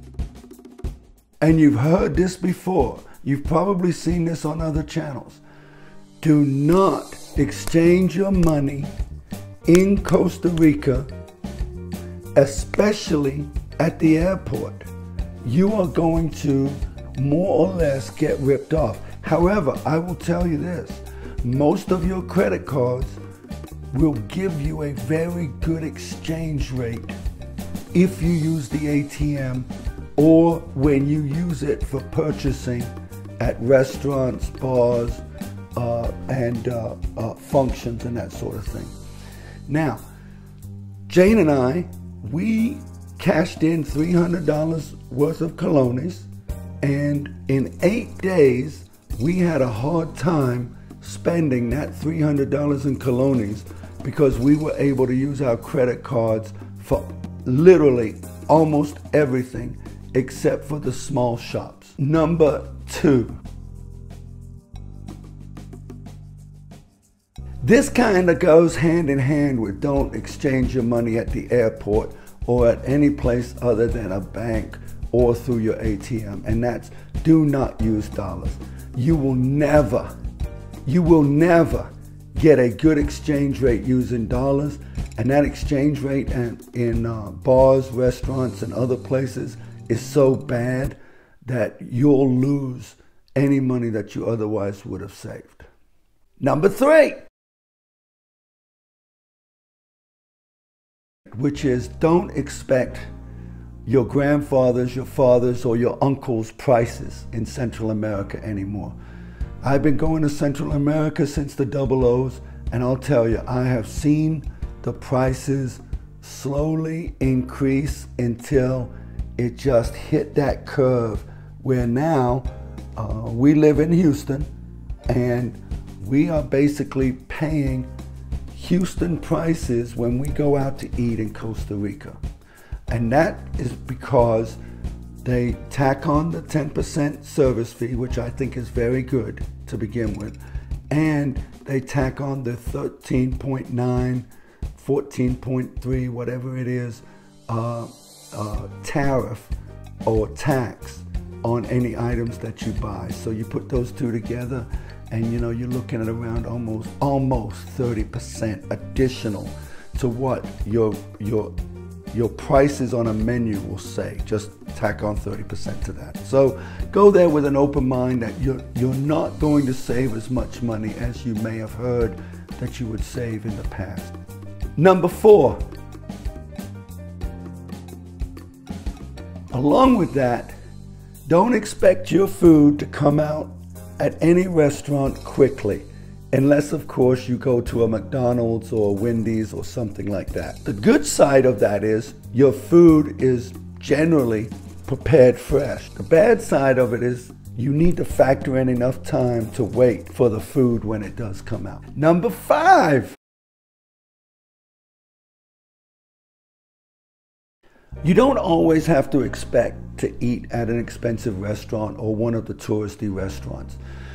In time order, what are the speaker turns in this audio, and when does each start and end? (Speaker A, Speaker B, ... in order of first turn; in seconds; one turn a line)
Speaker A: 1.4-5.4
Speaker A: 6.2-8.9
Speaker A: 9.7-11.1
Speaker A: 12.3-14.9
Speaker A: 15.4-23.2
Speaker A: 23.9-27.1
Speaker A: 27.9-35.2
Speaker A: 35.8-38.9
Speaker A: 39.7-40.0
Speaker A: 41.1-46.3
Speaker A: 46.8-63.4
Speaker A: 67.6-80.1
Speaker A: 80.8-95.7
Speaker A: 96.4-97.2
Speaker A: 101.3-103.0
Speaker A: 103.8-108.9
Speaker A: 109.6-124.5
Speaker A: 125.1-127.9
Speaker A: 128.5-132.2
Speaker A: 132.9-134.6
Speaker A: 135.2-140.4
Speaker A: 140.9-149.5
Speaker A: 150.1-161.5
Speaker A: 162.1-174.1
Speaker A: 174.8-175.6
Speaker A: 179.5-180.5
Speaker A: 181.3-203.2
Speaker A: 208.0-213.8